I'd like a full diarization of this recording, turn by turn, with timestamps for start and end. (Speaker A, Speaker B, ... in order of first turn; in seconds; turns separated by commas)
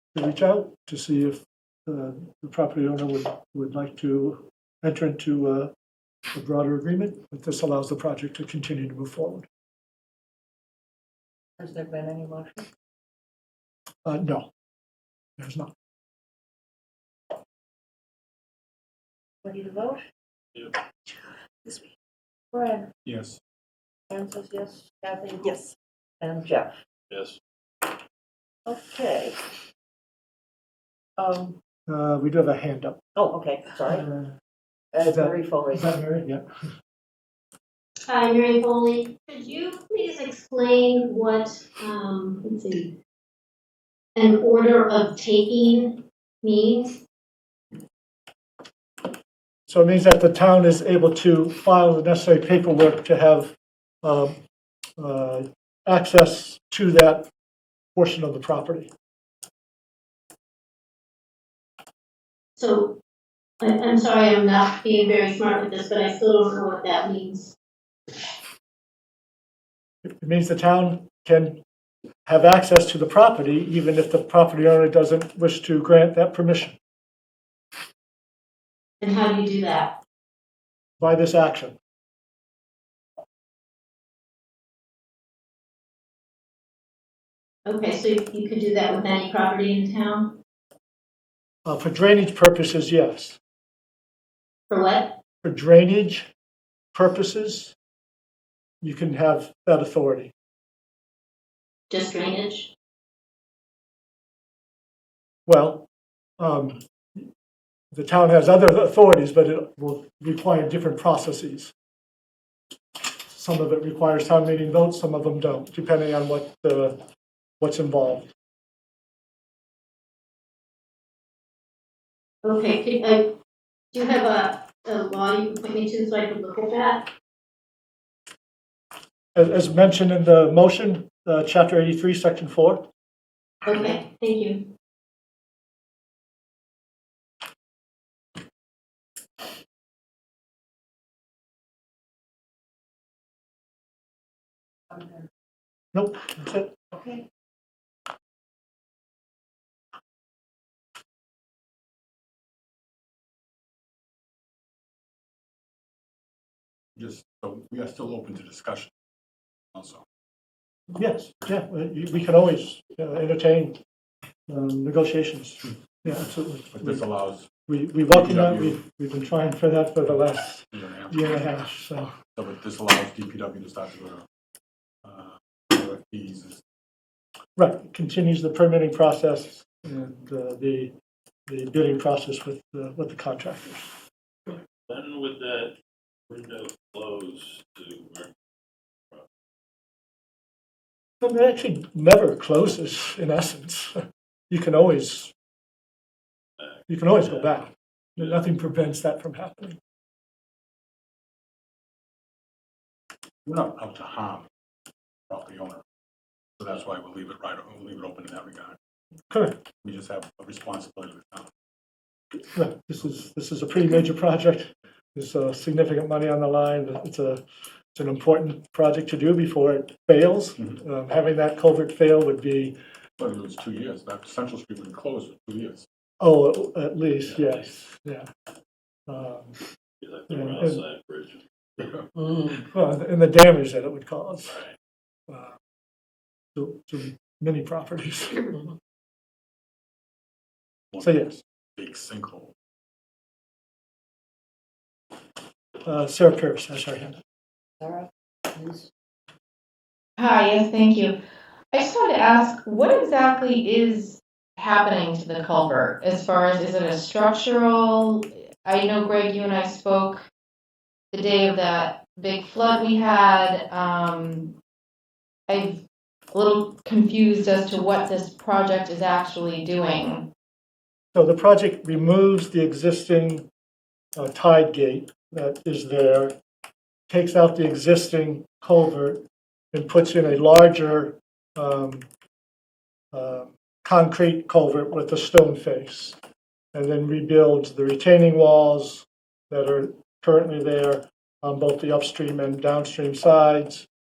Speaker A: 0.1-5.7, Speaker A: 6.3-9.4, Speaker B: 11.6-12.6, Speaker A: 14.0-14.5, Speaker A: 15.4-15.7, Speaker B: 19.4-20.0, Speaker B: 22.5-22.9, Speaker C: 23.0-23.4, Speaker B: 24.1-25.6, Speaker B: 26.2-26.7, Speaker D: 27.1-27.4, Speaker B: 28.6-29.4, Speaker B: 31.2-31.6, Speaker A: 31.9-33.0, Speaker B: 33.1-34.0, Speaker A: 33.9-34.3, Speaker B: 34.9-35.8, Speaker A: 35.0-36.4, Speaker E: 38.0-43.0, Speaker E: 44.1-47.0, Speaker A: 49.7-54.4, Speaker A: 55.0-57.3, Speaker A: 57.9-58.9, Speaker E: 62.6-63.0, Speaker E: 63.6-67.5, Speaker A: 70.0-71.6, Speaker A: 72.2-76.8, Speaker E: 79.0-80.0, Speaker A: 81.0-81.8, Speaker E: 87.7-90.4, Speaker A: 91.6-93.4, Speaker E: 94.7-95.2, Speaker A: 95.4-96.3, Speaker A: 96.9-97.7, Speaker A: 98.8-100.3, Speaker E: 101.9-102.7, Speaker A: 105.5-105.9, Speaker A: 106.4-107.3, Speaker A: 107.9-111.7, Speaker A: 113.3-117.0, Speaker A: 117.6-118.3, Speaker E: 122.4-123.3, Speaker E: 123.9-127.1, Speaker A: 129.3-132.8, Speaker E: 133.7-134.7, Speaker B: 144.9-145.2, Speaker A: 145.9-146.7, Speaker B: 146.9-147.2, Speaker C: 156.9-158.9, Speaker C: 159.7-160.0, Speaker A: 160.9-163.8, Speaker A: 164.5-167.0, Speaker C: 166.7-167.5, Speaker A: 167.7-172.1, Speaker C: 168.1-168.8, Speaker C: 170.7-171.1, Speaker C: 172.3-174.2, Speaker C: 175.0-176.6, Speaker A: 177.6-180.9, Speaker A: 181.5-183.9, Speaker D: 184.5-185.7, Speaker D: 186.3-188.3, Speaker A: 191.2-194.0, Speaker A: 194.5-195.3, Speaker D: 196.6-197.5, Speaker A: 196.9-199.8, Speaker C: 203.4-204.5, Speaker C: 205.3-205.8, Speaker C: 206.6-208.8, Speaker A: 209.3-209.6, Speaker C: 209.8-211.5, Speaker A: 212.5-217.4, Speaker A: 217.9-222.8, Speaker C: 223.2-225.8, Speaker A: 226.2-228.3, Speaker A: 229.1-229.6, Speaker D: 230.0-231.9, Speaker A: 230.3-230.8, Speaker A: 232.6-234.6, Speaker A: 235.3-235.5, Speaker A: 236.5-238.5, Speaker C: 240.9-241.2, Speaker A: 241.0-241.4, Speaker C: 241.8-242.5, Speaker A: 245.8-247.2, Speaker B: 247.8-248.9, Speaker F: 250.2-251.2, Speaker F: 251.7-260.3, Speaker F: 261.1-264.5, Speaker F: 265.5-270.3, Speaker A: 271.1-273.5, Speaker A: 274.1-276.3, Speaker A: 277.1-279.2, Speaker A: 279.7-282.0, Speaker A: 283.1-286.2, Speaker A: 286.7-293.9